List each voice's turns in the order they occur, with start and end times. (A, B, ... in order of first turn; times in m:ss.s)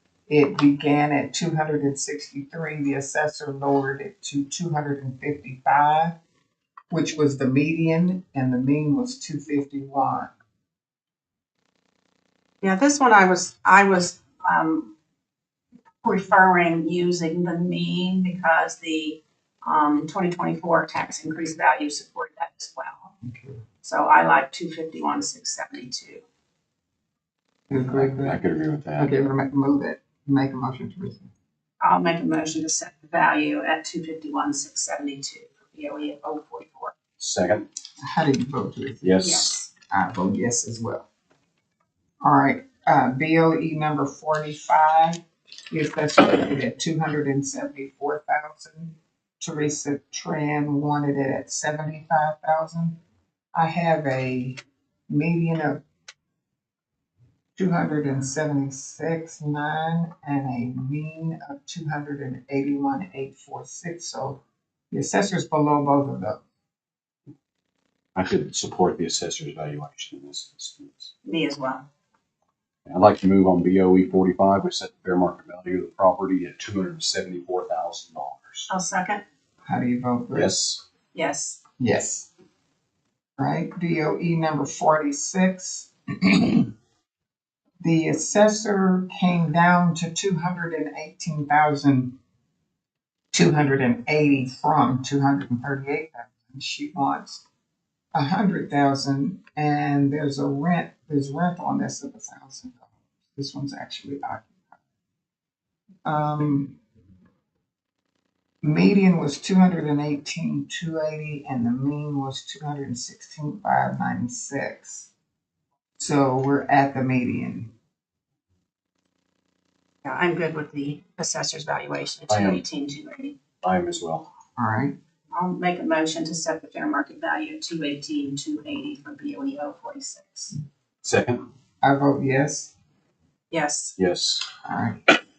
0:00.3-0:06.2 A
0:06.9-0:10.3 A
0:12.6-0:14.9 B
0:16.0-0:23.1 B
0:23.2-0:23.6 A
0:23.8-0:26.2 B
0:27.7-0:28.4 A
0:27.7-0:29.2 C
0:29.0-0:31.3 A
0:31.8-0:37.0 B
0:37.2-0:37.7 C
0:38.0-0:41.1 A
0:39.0-0:39.6 C
0:39.2-0:39.6 B
0:42.2-0:53.0 A
0:53.5-0:55.8 A
0:57.6-1:06.4 A
1:08.2-1:11.1 C
1:11.2-1:11.9 B
1:12.9-1:18.7 C
1:18.7-1:19.2 B
1:19.7-1:20.6 A
1:20.3-1:20.8 C
1:21.1-1:21.6 B
1:21.8-1:22.3 A
1:23.4-1:26.7 A
1:27.8-1:32.2 A
1:33.3-1:37.4 A
1:38.1-1:44.7 A
1:46.0-1:46.8 A
1:48.6-1:55.1 A
1:56.0-1:57.7 A
2:00.0-2:03.4 B
2:02.3-2:02.6 C
2:03.6-2:04.3 C
2:04.6-2:05.0 A
2:05.3-2:10.5 B
2:11.0-2:11.5 C
2:11.8-2:12.7 A
2:13.5-2:14.0 B
2:14.0-2:14.5 C
2:14.6-2:15.0 A